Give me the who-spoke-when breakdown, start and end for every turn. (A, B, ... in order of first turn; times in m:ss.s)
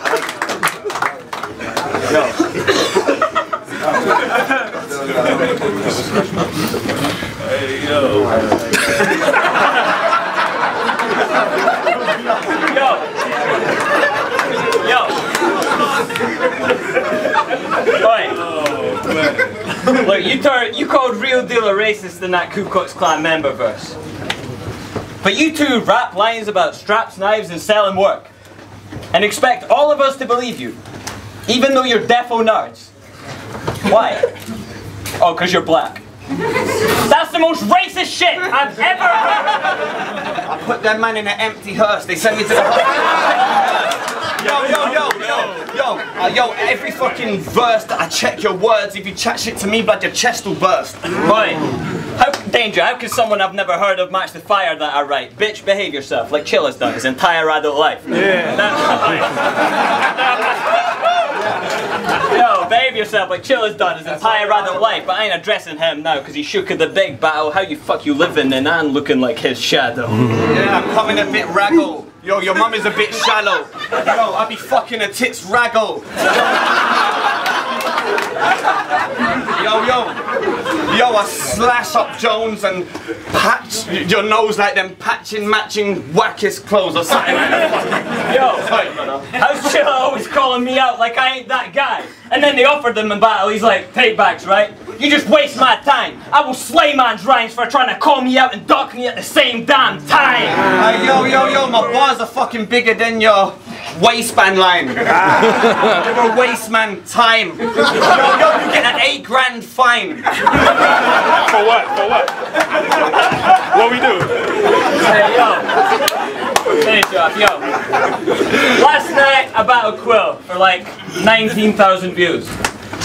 0:02.0-0:02.4 A
0:12.5-0:13.3 A
0:14.7-0:15.2 A
0:17.8-0:18.5 A
0:19.8-0:24.0 A
0:25.2-0:28.3 A
0:29.1-0:30.8 A
0:31.4-0:32.9 A
0:33.8-0:34.3 A
0:35.2-0:36.0 A
0:36.9-0:39.8 A
0:40.4-0:51.2 B
0:51.2-0:51.6 A
0:52.1-1:00.7 A
1:02.0-1:10.4 A
1:10.5-1:16.3 B
1:19.5-1:29.0 B
1:28.0-1:40.6 A
1:40.7-1:50.3 B
1:51.3-1:52.4 C
1:53.4-1:54.5 C
1:54.8-1:55.9 A
1:56.7-1:57.8 A
1:58.4-2:02.5 A